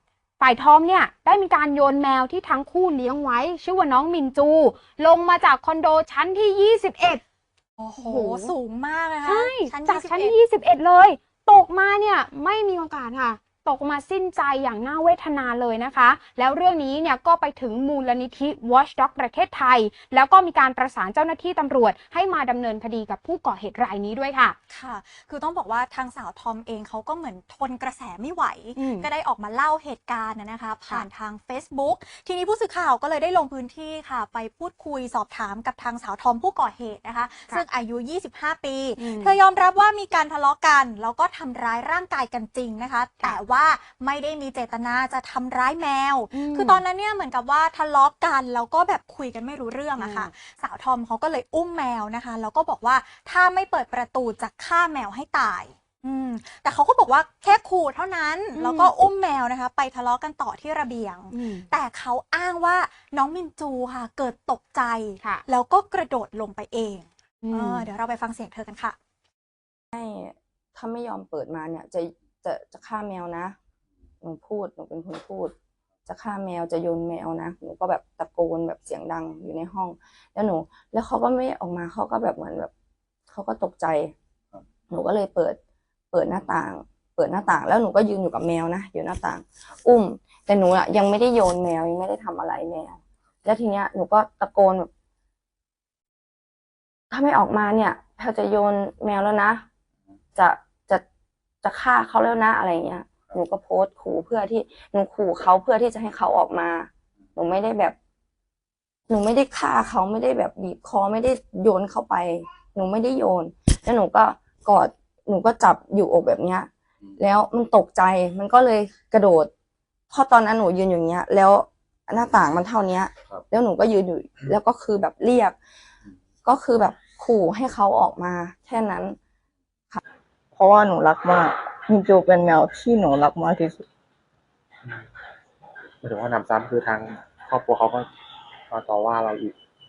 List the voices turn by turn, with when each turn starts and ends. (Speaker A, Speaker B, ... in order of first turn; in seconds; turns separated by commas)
Speaker A: 0.4-7.2, Speaker B: 7.8-10.3, Speaker A: 8.0-8.5, Speaker A: 9.2-24.6, Speaker B: 24.7-69.0, Speaker A: 28.8-29.1, Speaker A: 39.0-39.4, Speaker A: 46.3-46.8, Speaker A: 50.0-50.3, Speaker A: 58.5-58.9, Speaker A: 61.3-61.7, Speaker A: 67.4-67.9, Speaker C: 69.9-73.5, Speaker C: 74.2-75.5, Speaker C: 76.0-82.7, Speaker C: 83.3-84.1, Speaker C: 84.9-85.6, Speaker C: 86.1-94.9, Speaker C: 97.1-99.6, Speaker C: 100.3-101.0, Speaker C: 101.6-107.9, Speaker C: 109.1-119.5, Speaker C: 120.1-125.5, Speaker C: 126.4-129.2, Speaker D: 130.6-133.8, Speaker E: 136.0-138.1, Speaker E: 138.7-139.6